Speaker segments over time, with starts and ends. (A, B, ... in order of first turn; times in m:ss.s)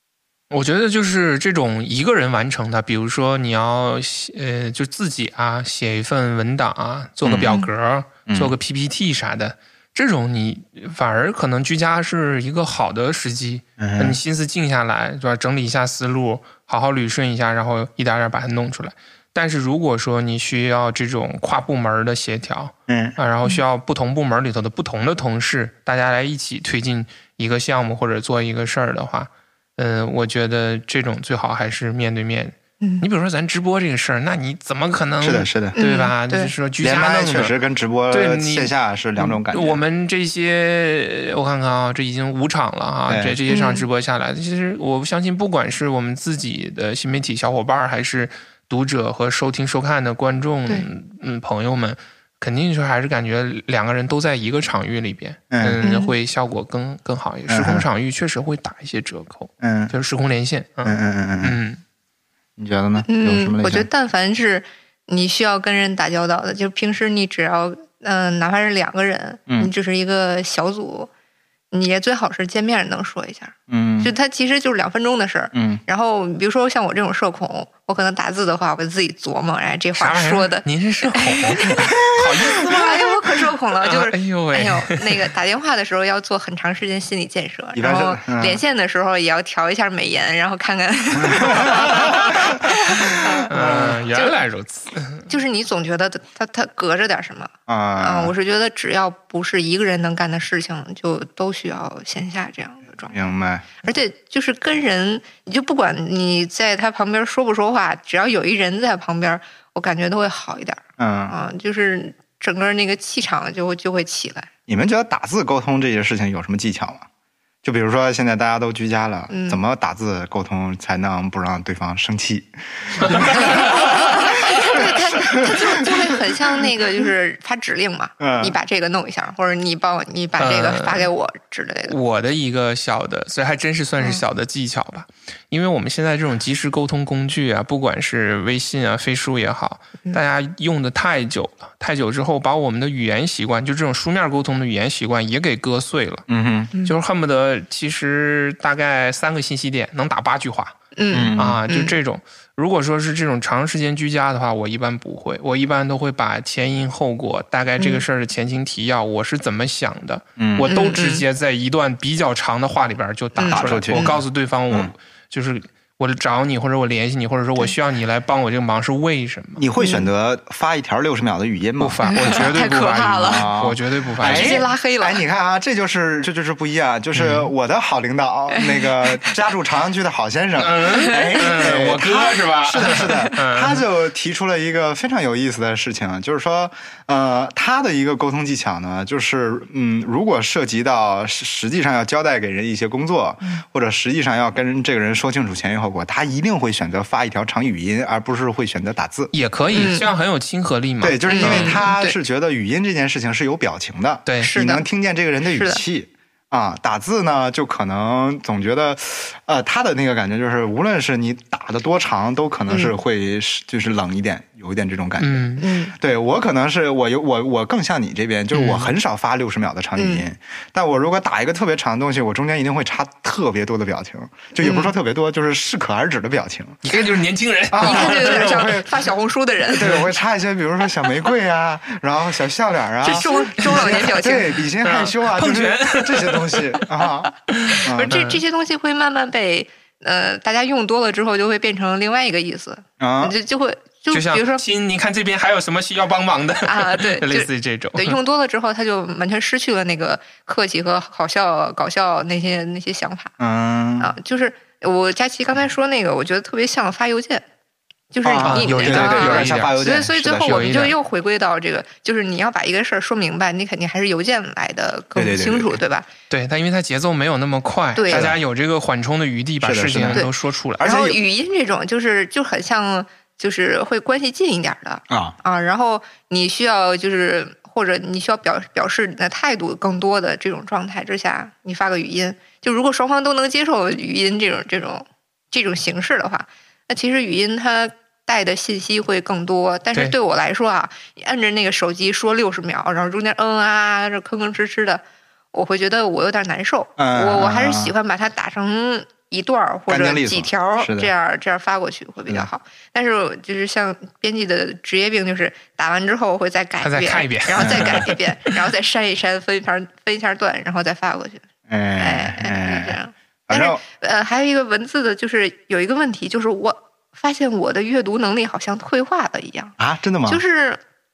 0:00.5-0:37.5 A
0:07.2-0:07.6 B
0:08.3-0:08.6 B
0:13.8-0:14.2 B
0:22.9-0:23.2 B
0:35.2-0:35.8 B
0:35.8-0:36.5 C
0:36.8-0:39.8 B
0:38.1-1:01.8 A
0:43.1-0:43.4 B
0:43.5-0:43.8 C
0:55.5-0:55.8 B
0:55.8-0:56.2 C
0:57.5-0:57.8 B
0:59.6-0:59.9 B
1:00.8-1:01.6 B
1:02.6-1:03.9 B
1:03.1-1:11.1 C
1:11.7-1:22.0 C
1:13.7-1:14.1 B
1:15.5-1:15.8 B
1:20.0-1:23.1 A
1:22.5-1:34.4 C
1:23.8-1:25.2 A
1:27.7-1:28.6 B
1:31.2-1:32.2 B
1:33.5-1:35.3 A
1:35.3-1:43.2 C
1:37.7-1:38.3 B
1:43.1-1:43.7 B
1:43.8-1:54.5 C
1:51.0-1:51.3 B
1:54.7-1:57.1 B
1:57.6-2:05.7 B
1:59.3-1:59.6 C
2:03.0-2:03.7 A
2:03.4-2:12.0 C
2:08.2-2:08.6 B
2:10.4-2:11.1 A
2:11.9-2:26.3 A
2:26.3-2:26.7 B
2:26.8-2:30.8 A
2:31.0-2:31.9 C
2:31.1-2:31.6 B
2:31.4-2:49.6 A
2:37.8-2:38.0 C
2:40.4-2:40.7 B
2:40.6-2:41.2 C
2:43.4-2:44.2 C
2:43.5-2:44.2 B
2:49.6-2:52.5 B
2:49.8-2:50.1 C
2:51.8-2:54.7 A
2:52.1-2:53.5 C
2:53.3-3:19.3 B
2:54.2-2:55.2 C
2:57.2-2:57.5 A
2:58.5-2:59.3 C
3:00.6-3:03.8 A
3:01.0-3:01.6 C
3:19.3-3:21.8 A
3:19.7-3:20.1 C
3:21.0-3:46.8 B
3:21.3-3:22.2 C
3:24.3-3:24.5 A
3:24.4-3:24.8 C
3:25.5-3:25.8 C
3:35.2-3:35.7 A
3:35.6-3:35.9 C
3:38.5-3:38.9 A
3:40.0-3:40.2 C
3:44.6-3:44.9 C
3:46.8-3:48.8 A
3:47.7-3:48.9 B
3:47.8-3:49.9 C
3:49.7-3:57.3 B
3:53.0-3:54.5 C
3:53.1-3:54.1 A
3:54.8-3:56.9 A
3:57.5-3:58.4 A
3:57.7-4:04.6 C
3:57.8-3:58.2 B
4:03.0-4:03.4 B
4:04.1-4:08.2 A
4:06.6-4:13.3 C
4:13.4-4:14.1 B
4:14.0-4:17.4 C
4:18.1-4:26.1 C
4:18.2-4:20.8 B
4:18.4-4:19.8 A
4:20.4-4:21.0 A
4:25.2-4:25.8 B
4:26.3-4:30.9 A
4:28.0-4:28.3 C
4:28.1-4:28.4 B
4:29.6-4:30.3 B
4:30.1-4:55.0 C
4:30.8-4:31.2 B
4:35.1-4:35.4 B
4:55.5-5:11.4 C
4:57.0-4:57.9 B
4:59.9-5:01.1 B
5:06.8-5:08.5 A
5:07.6-5:08.1 B
5:11.7-5:13.8 B
5:12.0-5:20.8 C
5:19.8-5:20.4 B